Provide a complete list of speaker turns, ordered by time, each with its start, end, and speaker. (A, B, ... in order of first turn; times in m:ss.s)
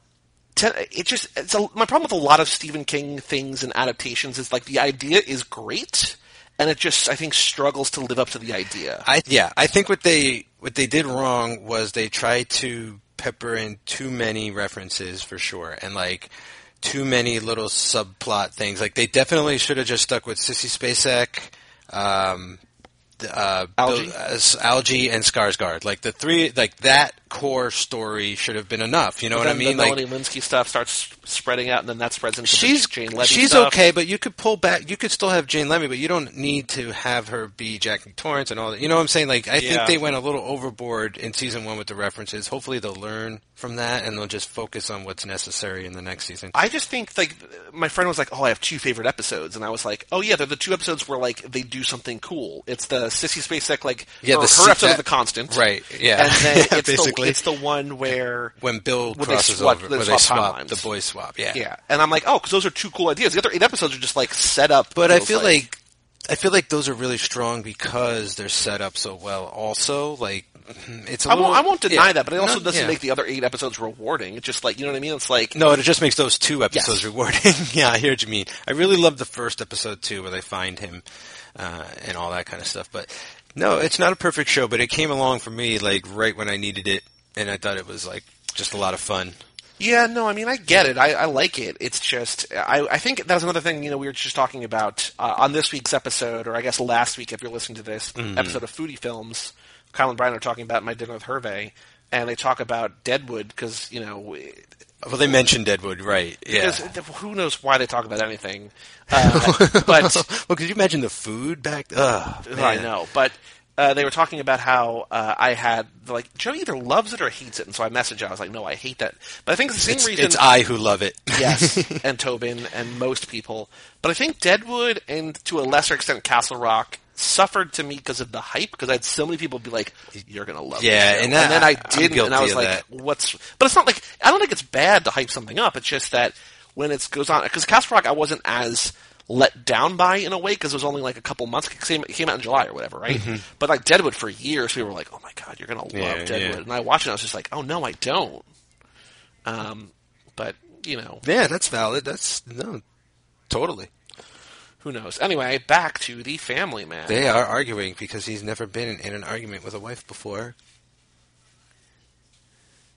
0:00.5-0:09.0 A
0:09.0-0:22.6 B
0:23.2-0:30.0 B
0:23.8-0:24.1 A
0:29.3-0:33.8 A
0:32.4-0:46.6 B
0:39.6-0:40.0 A
0:46.5-0:58.6 A
0:54.2-0:57.4 B
0:58.6-1:01.6 B
0:59.1-1:00.8 A
1:01.5-1:05.6 A
1:04.9-1:13.0 B
1:11.3-1:15.6 A
1:15.5-1:21.0 B
1:16.7-1:17.1 A
1:21.5-1:29.4 B
1:29.8-1:44.7 A
1:38.2-1:38.6 B
1:45.0-1:46.9 B
1:46.5-1:50.2 A
1:49.1-1:52.9 B
1:52.4-2:00.4 A
1:59.8-2:02.0 B
2:01.3-2:28.4 A
2:10.8-2:12.8 B
2:23.1-2:23.4 B
2:25.9-2:26.6 B
2:29.4-2:31.2 A
2:31.2-2:32.8 B
2:33.5-2:33.9 B
2:34.8-2:37.2 A
2:37.1-2:40.6 B